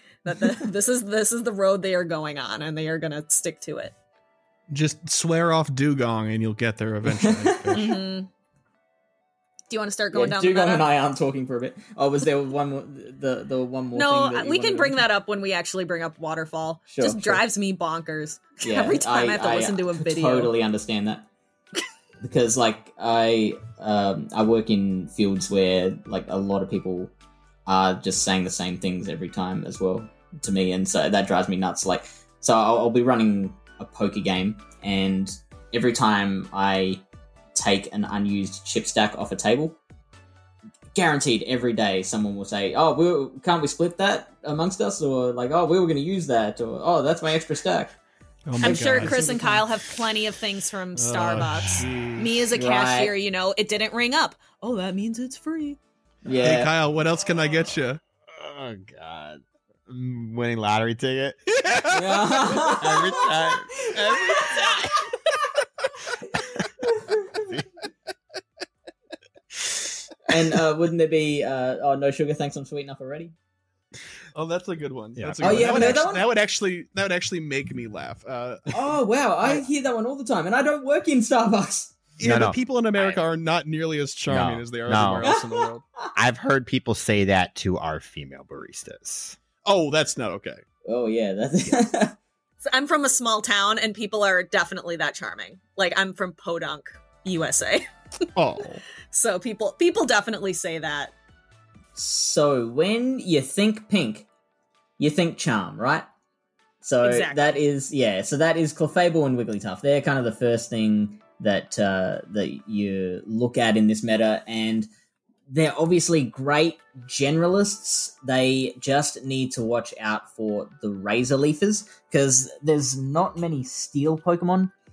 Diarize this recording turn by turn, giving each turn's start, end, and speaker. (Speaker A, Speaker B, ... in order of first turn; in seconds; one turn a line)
Speaker A: 0.2-3.9
Speaker B: 4.7-7.9
Speaker C: 7.1-7.8
Speaker A: 7.7-8.3
Speaker A: 9.7-10.9
Speaker C: 10.1-15.0
Speaker A: 13.9-20.5
Speaker C: 16.9-17.4
Speaker C: 18.6-21.3
Speaker C: 22.2-27.1
Speaker C: 27.6-37.0
Speaker C: 37.5-39.8
Speaker C: 40.9-47.9
Speaker B: 48.5-49.6
Speaker C: 48.6-49.2
Speaker A: 48.6-55.8
Speaker B: 50.9-52.5
Speaker C: 52.5-53.1
Speaker C: 56.2-56.7
Speaker B: 56.4-58.0
Speaker D: 58.4-61.9
Speaker B: 61.5-62.6
Speaker C: 61.9-63.3
Speaker D: 62.7-64.8
Speaker C: 70.3-73.3
Speaker B: 74.3-78.8
Speaker D: 75.2-76.0
Speaker C: 75.4-76.2
Speaker C: 78.7-82.0
Speaker B: 82.2-85.8
Speaker D: 82.2-83.2
Speaker D: 84.3-85.3
Speaker C: 85.2-86.1
Speaker D: 86.1-89.4
Speaker B: 89.6-90.6
Speaker C: 90.8-92.2
Speaker A: 92.6-97.9
Speaker B: 98.3-98.8
Speaker A: 99.1-101.1
Speaker C: 101.9-104.3
Speaker C: 105.0-106.1
Speaker C: 106.8-114.9
Speaker A: 107.0-107.5
Speaker C: 115.5-124.7